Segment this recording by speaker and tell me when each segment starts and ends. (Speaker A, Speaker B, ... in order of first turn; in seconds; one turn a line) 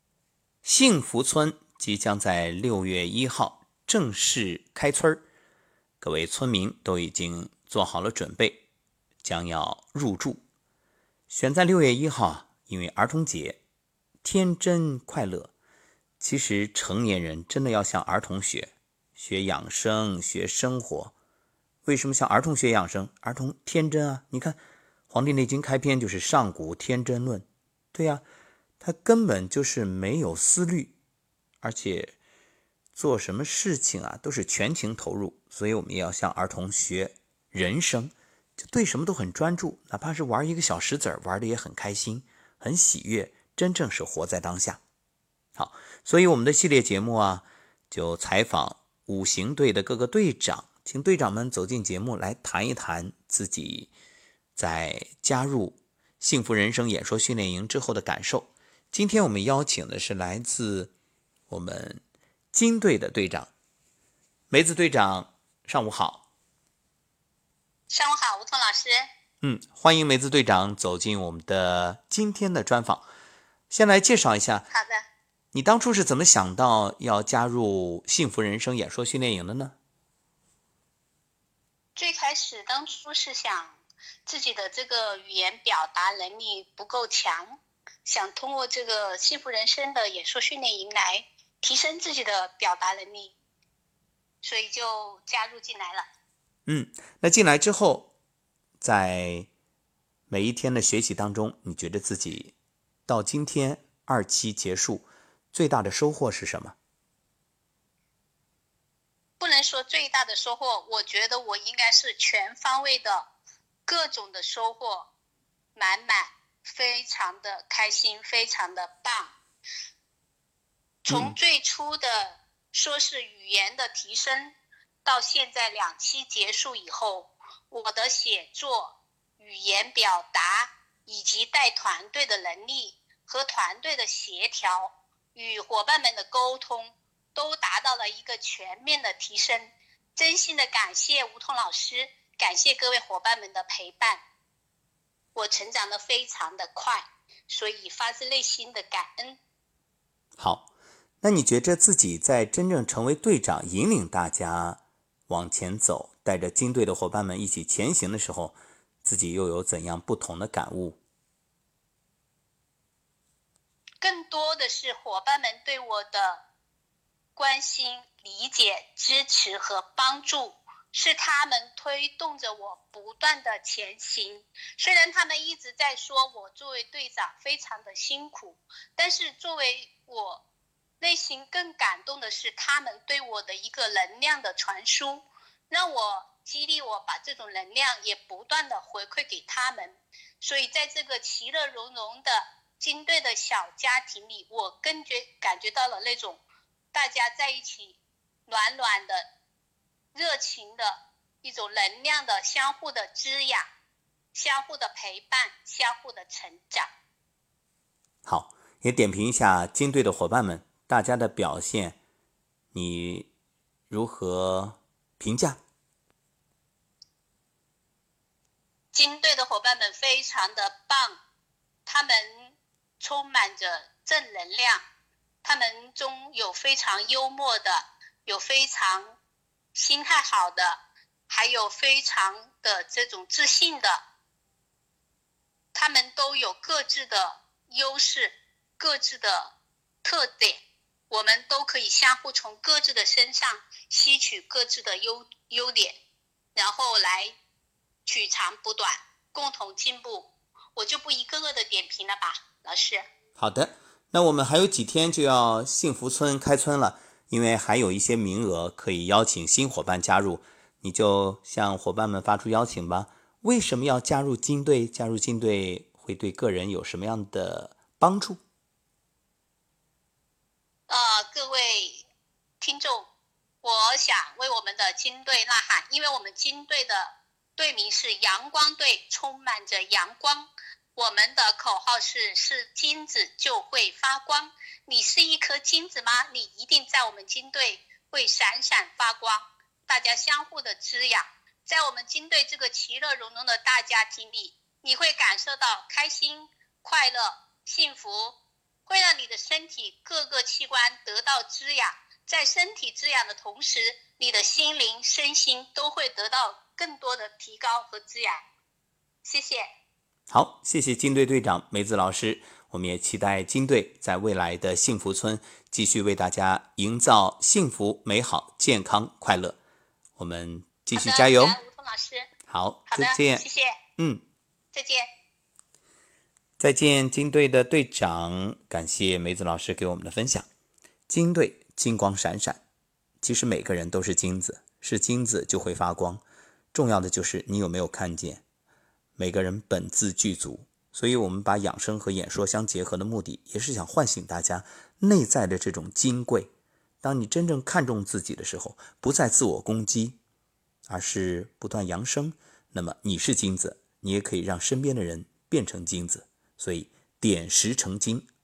Speaker A: 0.6-5.2
Speaker A: 6.0-8.6
Speaker A: 9.2-10.4
Speaker A: 11.3-13.6
Speaker A: 14.2-15.5
Speaker A: 16.2-21.1
Speaker A: 21.8-24.6
Speaker A: 25.1-28.2
Speaker A: 28.8-30.9
Speaker A: 31.6-32.1
Speaker A: 32.9-44.8
Speaker A: 45.5-53.9
Speaker A: 54.5-60.9
Speaker A: 61.5-62.0
Speaker A: 62.5-63.5
Speaker A: 64.5-66.2
Speaker B: 67.9-69.1
Speaker A: 69.4-73.0
Speaker A: 73.7-74.7
Speaker B: 74.7-75.0
Speaker A: 75.5-79.8
Speaker B: 82.0-93.3
Speaker B: 94.4-96.1
Speaker A: 96.7-98.1
Speaker A: 98.8-99.5
Speaker A: 100.3-102.5
Speaker A: 103.1-106.8
Speaker B: 109.4-113.3
Speaker B: 113.8-115.1
Speaker B: 115.7-119.3
Speaker B: 121.0-144.2
Speaker A: 121.1-121.4
Speaker B: 145.3-149.4
Speaker A: 150.4-150.7
Speaker A: 151.2-161.0
Speaker B: 164.0-166.4
Speaker B: 167.3-180.4
Speaker B: 181.0-196.4
Speaker B: 196.9-199.2
Speaker B: 200.1-203.7
Speaker B: 204.3-206.9
Speaker A: 208.2-212.0
Speaker A: 212.7-213.3
Speaker A: 213.9-215.6
Speaker B: 218.9-221.2
Speaker B: 221.8-224.8
Speaker B: 225.4-229.2
Speaker B: 229.7-234.0
Speaker B: 235.7-246.0
Speaker B: 246.5-247.3
Speaker B: 248.0-253.0
Speaker A: 253.4-268.4
Speaker B: 270.9-272.0
Speaker B: 272.6-273.1
Speaker B: 273.6-308.4
Speaker B: 309.2-309.7
Speaker A: 310.3-319.6
Speaker A: 320.2-321.6
Speaker B: 320.9-322.3
Speaker A: 322.5-323.4
Speaker B: 322.9-323.8
Speaker A: 324.0-324.2
Speaker B: 324.7-325.1
Speaker A: 326.6-330.5
Speaker A: 331.1-332.6
Speaker A: 333.2-338.4
Speaker A: 339.2-346.5
Speaker A: 347.0-350.2
Speaker A: 350.9-358.3